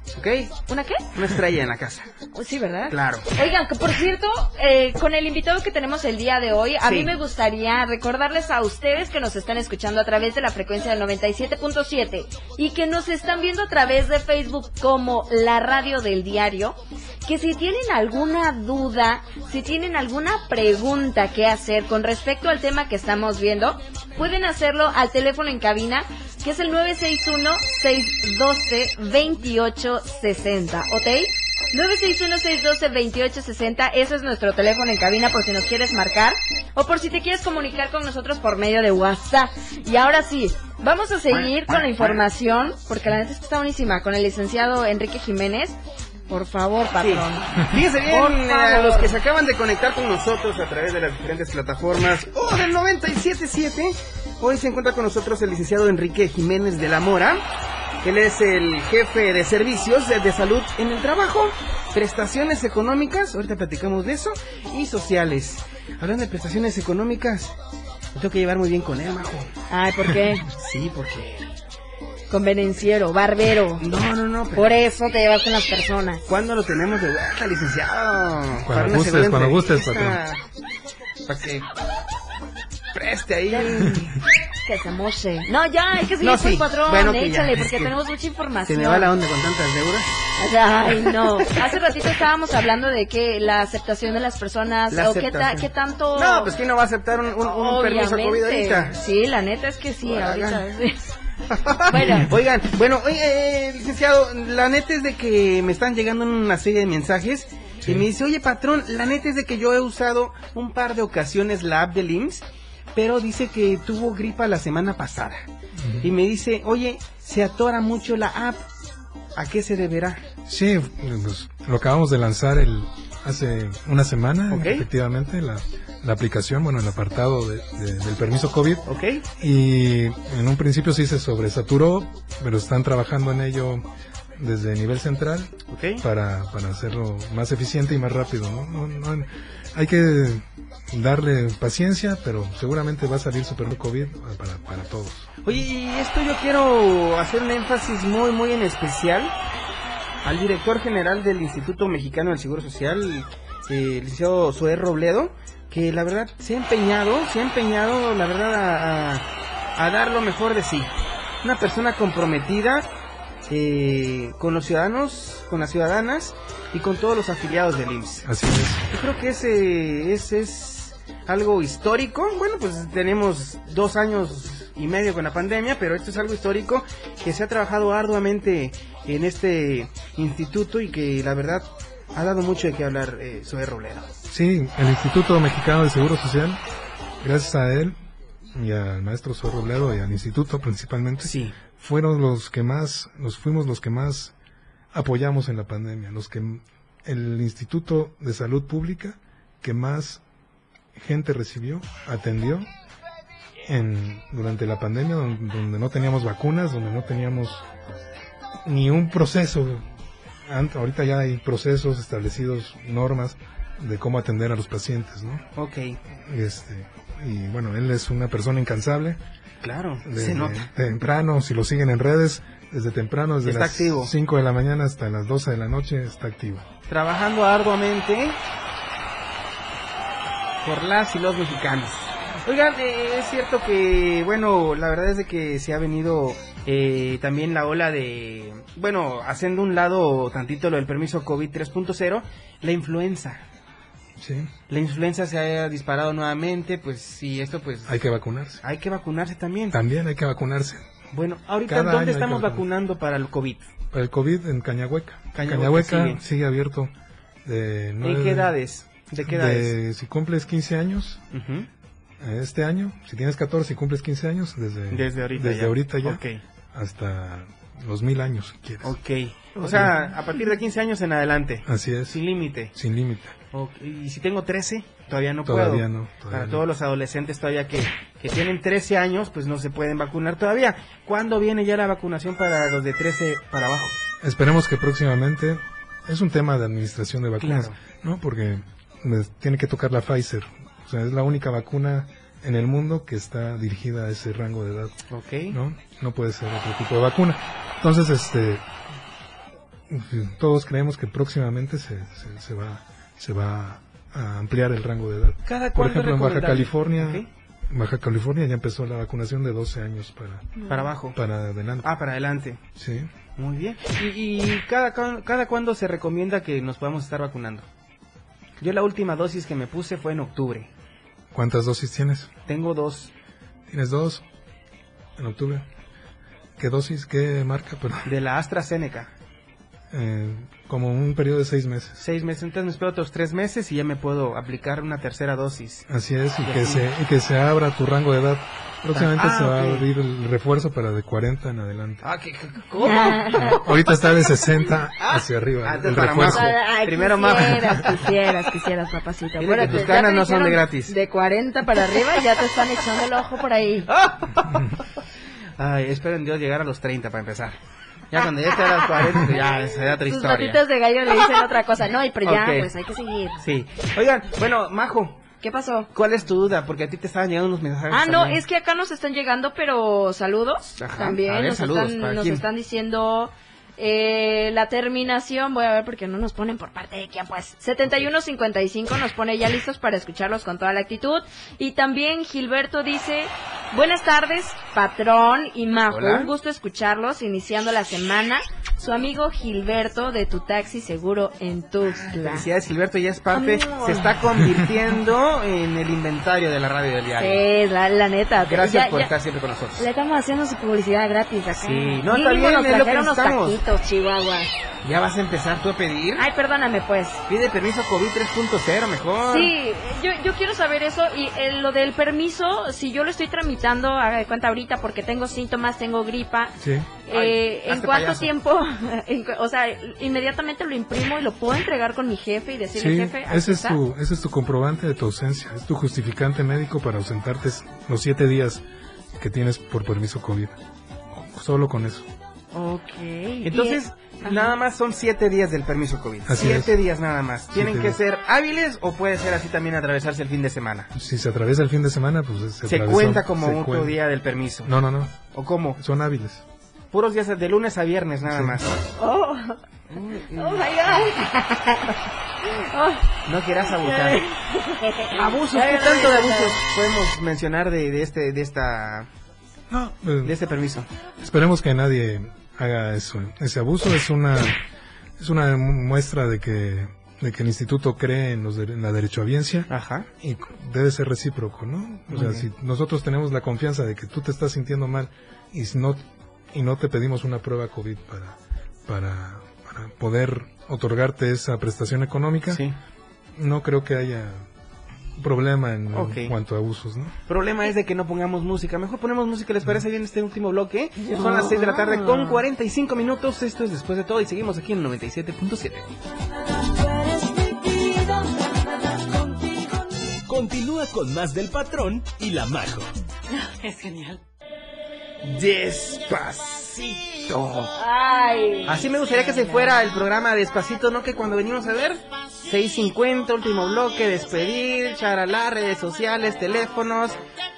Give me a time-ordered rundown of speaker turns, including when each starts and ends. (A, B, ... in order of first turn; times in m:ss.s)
0:00.1-0:00.5 A
0:00.7-0:01.0 B
0:01.1-0:02.1 A
0:02.3-0:45.8 B
0:02.9-0:03.2 A
0:06.8-0:07.1 A
0:41.3-0:42.2 A
0:46.3-0:49.2 B
0:47.0-0:57.4 A
0:58.0-1:07.5 A
1:08.1-1:09.5 A
1:09.7-1:10.4 B
1:10.5-1:11.5 A
1:12.3-1:13.8 B
1:13.8-1:14.7 A
1:14.5-1:16.2 B
1:16.3-1:20.4 A
1:18.6-1:20.2 C
1:21.3-1:21.7 A
1:22.9-1:24.0 A
1:23.5-1:24.1 B
1:24.6-1:29.1 B
1:26.2-1:27.9 A
1:28.6-1:30.1 A
1:30.4-1:36.5 B
1:34.9-1:39.0 A
1:37.4-1:41.0 B
1:40.0-1:40.6 A
1:41.5-1:52.4 A
1:41.9-1:42.3 B
1:52.9-1:55.4 A
1:55.7-1:56.1 C
1:56.0-1:58.6 A
1:59.4-2:00.2 A
2:00.4-2:08.9 C
2:04.5-2:04.8 A
2:08.8-2:09.2 A
2:09.4-2:25.3 C
2:15.7-2:16.0 A
2:25.4-2:29.3 A
2:30.2-2:42.9 A
2:43.5-2:48.2 A
2:48.2-2:48.8 C
2:48.9-3:04.1 A
3:04.3-3:06.6 C
3:07.2-3:08.0 C
3:08.5-3:14.3 C
3:11.2-3:11.5 A
3:14.9-3:20.2 C
3:20.9-3:22.7 C
3:23.6-3:27.6 C
3:28.6-3:29.9 C
3:30.4-3:35.4 C
3:35.6-3:36.0 A
3:36.2-3:39.2 C
3:39.6-3:40.7 A
3:40.0-3:46.6 C
3:43.4-3:44.1 A
3:46.9-3:48.4 A
3:50.6-4:03.4 A
4:04.2-4:04.5 C
4:04.7-4:08.0 A
4:07.8-4:08.6 C
4:08.6-4:09.8 A
4:09.7-4:10.8 C
4:11.1-4:13.7 A
4:11.7-4:12.6 C
4:13.9-4:16.9 C
4:15.3-4:16.2 A
4:17.4-4:18.5 C
4:18.0-4:19.7 A
4:19.2-4:21.2 C
4:21.3-4:21.7 A
4:22.2-4:26.2 C
4:24.9-4:26.4 A
4:26.7-4:28.9 C
4:28.8-4:32.7 A
4:29.6-4:29.9 C
4:31.6-4:32.2 C
4:32.7-4:33.4 C
4:33.5-4:44.0 A
4:35.4-4:36.6 C
4:44.2-4:55.0 C
4:47.4-4:47.7 A
4:55.1-4:55.6 A
4:55.5-4:58.7 C
4:59.9-5:10.6 C
5:05.4-5:07.3 A
5:10.6-5:10.9 B
5:10.7-5:11.2 A
5:11.1-5:11.9 C
5:11.8-5:12.6 A
5:12.8-5:13.1 C
5:13.4-5:17.7 A
5:18.6-5:20.7 A
5:21.3-5:22.3 C
5:22.5-5:23.1 A
5:23.7-5:24.2 C
5:25.2-5:25.7 C
5:26.6-5:28.1 C
5:28.0-5:29.1 A
5:29.9-5:32.0 C
5:32.0-5:35.8 A
5:35.9-5:42.0 C
5:36.4-5:36.8 A
5:38.9-5:39.8 A
5:42.0-5:43.6 A
5:42.8-5:43.6 B
5:43.4-5:46.5 C
5:45.0-5:48.0 A
5:46.3-5:53.9 B
5:49.4-5:50.9 A
5:53.9-5:54.7 A
5:55.6-5:57.6 A
5:58.1-6:00.6 A
5:58.8-5:59.4 B
6:00.0-6:03.4 B
6:02.2-6:02.7 A
6:03.4-6:05.2 A
6:05.4-6:05.9 B
6:05.9-6:08.4 A
6:07.9-6:32.4 B
6:10.8-6:12.4 A
6:25.9-6:26.3 A
6:31.8-6:37.4 A
6:33.3-6:34.1 B
6:37.2-6:39.1 B
6:38.4-6:39.8 A
6:39.8-6:44.5 B
6:41.6-6:43.6 A
6:44.8-6:46.2 A
6:46.2-6:47.2 B
6:47.3-6:49.5 A
6:49.2-6:56.5 B
6:56.6-6:56.9 C
6:57.0-7:03.8 B
6:57.1-6:58.3 A
7:02.7-7:08.6 C
7:09.2-7:10.6 C
7:11.1-7:12.1 C
7:12.5-7:14.5 B
7:13.4-7:20.9 A
7:16.2-7:16.8 C
7:17.5-7:18.0 C
7:20.9-7:24.0 C
7:22.6-7:24.7 A
7:24.6-7:25.2 C
7:25.3-7:25.8 A
7:25.8-7:26.4 C
7:26.9-7:28.8 A
7:28.3-7:28.6 C
7:29.0-7:29.6 B
7:29.9-7:31.1 A
7:30.4-7:31.9 B
7:32.4-7:33.0 B
7:33.2-7:34.2 A
7:33.8-7:36.6 B
7:35.1-7:39.1 A
7:39.7-7:40.4 C
7:40.2-7:40.9 A
7:41.2-7:44.6 C
7:45.2-7:49.7 C
7:49.7-7:50.1 A
7:50.2-8:02.6 C
7:52.1-7:52.5 A
8:02.5-8:02.7 A
8:03.3-8:04.4 C
8:05.2-8:07.2 C
8:05.9-8:06.3 A
8:07.3-8:15.9 A
8:11.0-8:12.4 B
8:20.4-8:22.6 D
8:25.2-8:27.7 A
8:27.8-8:29.6 B
8:28.6-8:37.2 A